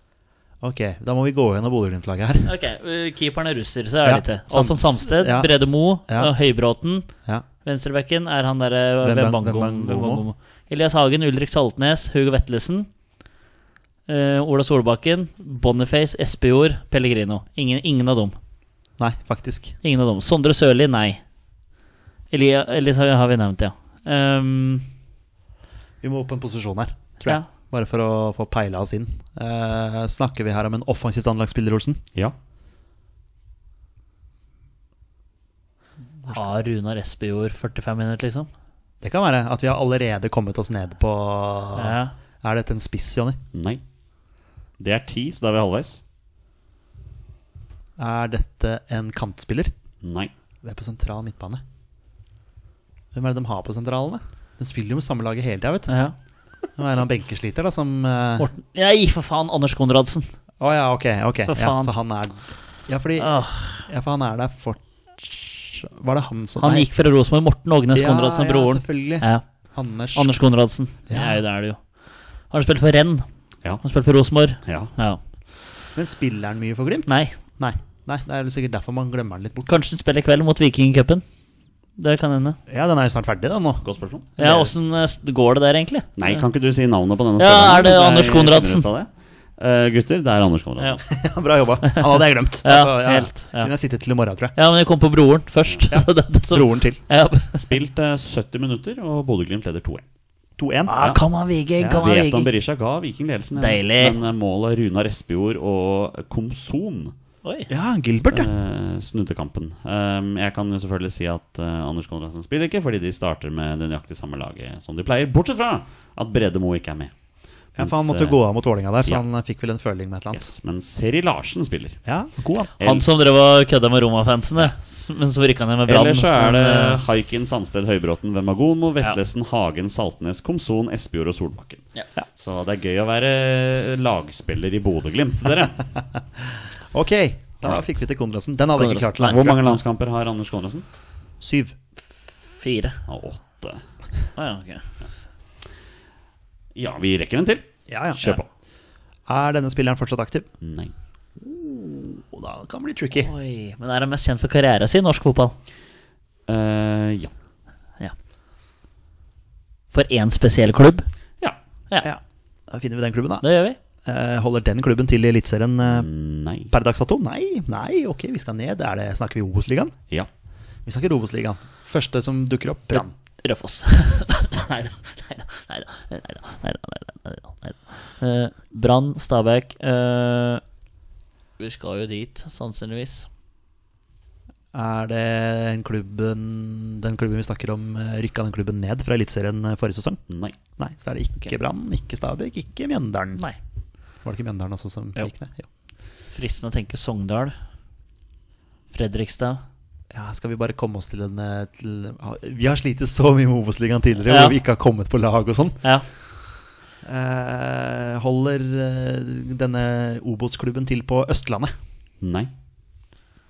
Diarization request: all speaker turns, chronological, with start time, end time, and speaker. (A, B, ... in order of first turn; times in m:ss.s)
0:00.6-0:02.5 A
0:02.4-0:07.1 B
0:04.0-0:06.3 A
0:07.6-0:12.9 B
0:09.0-0:10.2 A
0:14.1-0:18.4 B
0:19.0-0:19.7 A
0:19.8-0:21.2 B
0:22.3-0:24.9 B
0:26.0-0:32.0 A
0:36.2-0:38.5 B
0:39.0-0:43.4 A
0:41.8-0:42.1 B
0:43.5-0:43.8 C
0:44.8-0:46.0 C
0:48.0-0:49.7 A
0:50.0-0:50.3 C
0:50.6-0:51.6 A
0:53.1-0:56.0 A
0:55.9-0:56.1 B
0:56.8-0:58.5 A
0:58.4-1:00.3 B
1:00.6-1:06.9 A
1:01.5-1:01.9 B
1:03.2-1:03.9 B
1:06.6-1:09.6 B
1:07.9-1:10.3 A
1:10.1-1:11.8 B
1:11.1-1:11.4 A
1:12.5-1:13.2 B
1:13.8-1:15.2 B
1:14.6-1:14.9 C
1:15.9-1:19.7 A
1:17.1-1:17.3 B
1:19.6-1:21.2 B
1:22.0-1:22.6 B
1:22.7-1:24.7 A
1:23.8-1:24.3 C
1:24.4-1:26.4 B
1:26.2-1:31.0 C
1:27.4-1:28.9 B
1:31.1-1:34.5 A
1:31.9-1:33.7 B
1:34.5-1:37.7 B
1:35.9-1:37.0 A
1:37.5-1:40.0 C
1:40.6-1:41.0 A
1:40.8-1:42.5 B
1:41.8-1:42.0 A
1:42.0-1:47.1 C
1:43.6-1:44.2 B
1:47.4-1:47.7 B
1:47.7-1:48.5 A
1:48.3-1:57.1 C
1:57.8-1:58.4 C
1:57.8-2:00.4 A
2:00.3-2:02.0 C
2:02.0-2:02.7 A
2:02.8-2:03.0 C
2:02.8-2:07.0 B
2:05.8-2:15.8 C
2:16.9-2:19.6 A
2:18.8-2:19.6 B
2:19.1-2:20.8 C
2:21.4-2:21.7 A
2:22.5-2:23.0 B
2:23.1-2:23.8 C
2:24.4-2:24.8 B
2:26.7-2:28.5 C
2:27.9-2:28.4 A
2:29.3-2:30.5 A
2:30.6-2:30.9 C
2:31.4-2:33.3 A
2:33.1-2:35.6 B
2:36.5-2:37.3 C
2:39.9-2:41.1 B
2:42.0-2:43.4 A
2:43.4-2:43.8 B
2:44.0-2:46.1 A
2:45.8-2:46.7 C
2:46.7-2:49.9 A
2:50.8-2:53.1 A
2:52.9-3:00.6 B
3:01.6-3:03.3 B
3:04.7-3:10.2 A
3:10.3-3:10.6 C
3:10.8-3:13.4 A
3:14.2-3:15.7 A
3:16.3-3:17.6 B
3:18.9-3:19.6 B
3:20.1-3:25.8 A
3:24.3-3:24.6 B
3:27.0-3:31.7 A
3:32.2-3:32.5 C